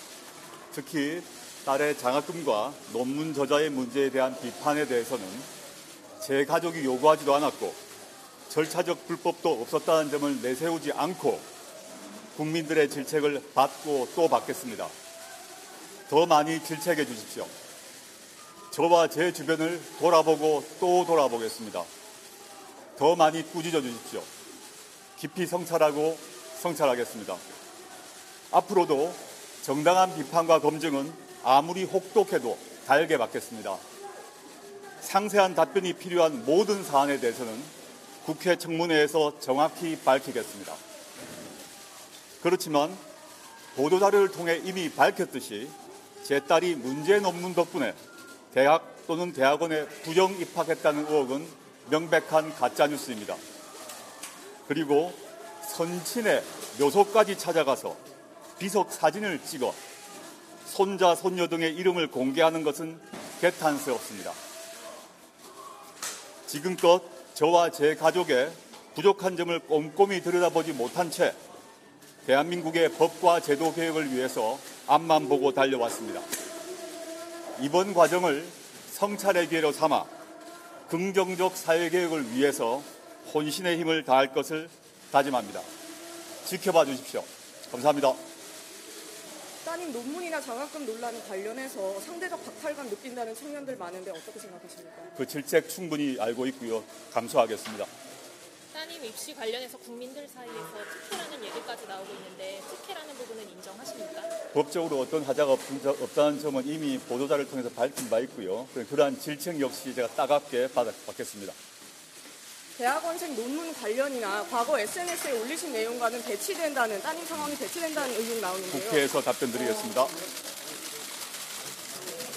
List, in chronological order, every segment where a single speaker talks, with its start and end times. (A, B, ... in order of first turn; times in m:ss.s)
0:00.7-0:05.5 A
0:06.2-0:07.8 A
0:08.5-0:11.5 A
0:12.3-0:14.9 A
0:16.1-0:17.5 A
0:18.7-0:21.9 A
0:23.0-0:24.3 A
0:25.2-0:27.4 A
0:28.5-0:33.8 A
0:35.0-0:37.7 A
0:38.2-0:40.8 A
0:42.4-0:43.0 A
0:43.7-0:48.0 A
0:48.5-0:53.4 A
0:54.7-0:58.0 A
0:58.6-0:59.8 A
1:00.6-1:04.4 A
1:06.5-1:11.4 A
1:12.2-1:16.2 A
1:17.6-1:20.1 A
1:20.9-1:25.7 A
1:26.4-1:28.2 A
1:29.6-1:35.1 B
1:35.1-1:37.9 A
1:38.7-1:44.3 C
1:44.5-1:51.6 A
1:52.8-1:59.0 B
1:58.7-2:00.1 A